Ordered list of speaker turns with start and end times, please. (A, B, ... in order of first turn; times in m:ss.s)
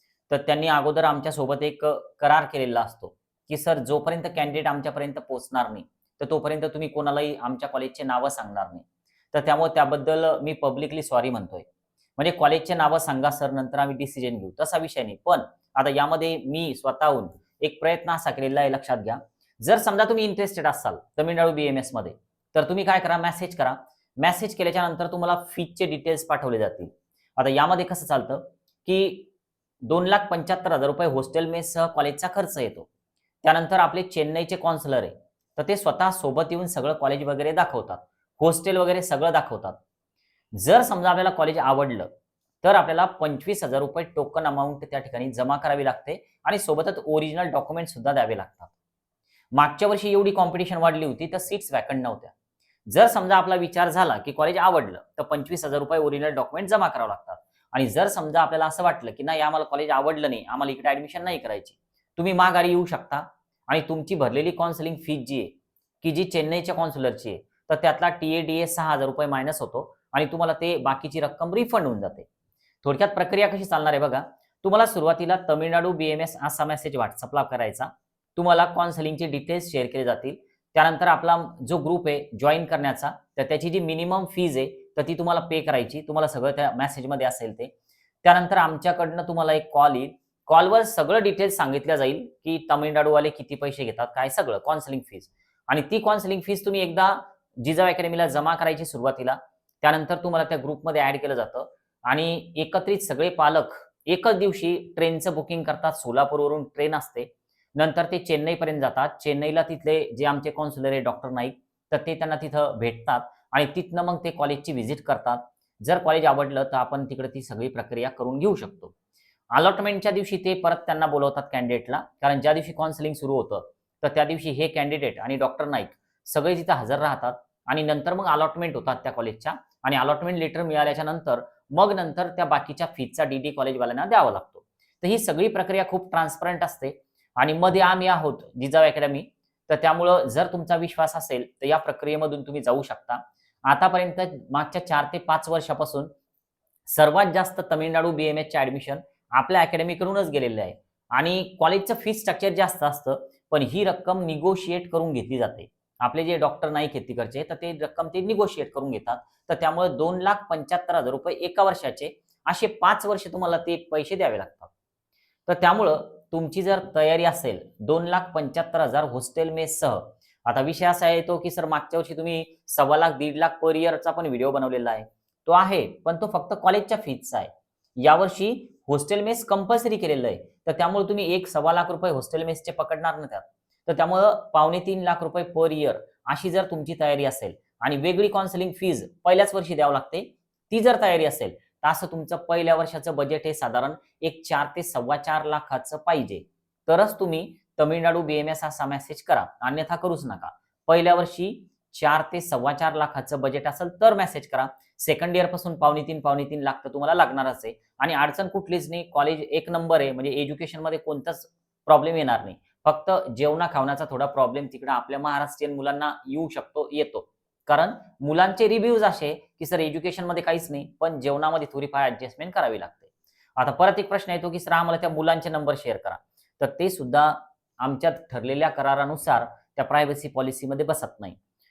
0:00.3-0:11.6 A
0:12.2-0:29.3 A
0:29.8-0:32.9 A
0:33.4-0:39.8 A
0:40.6-0:42.1 A
0:42.6-0:48.7 A
0:49.5-0:52.3 A
0:52.9-1:12.3 A
1:12.8-1:27.7 A
1:28.2-1:58.9 A
1:59.5-2:26.1 A
2:26.9-2:44.7 A
2:45.4-3:51.4 A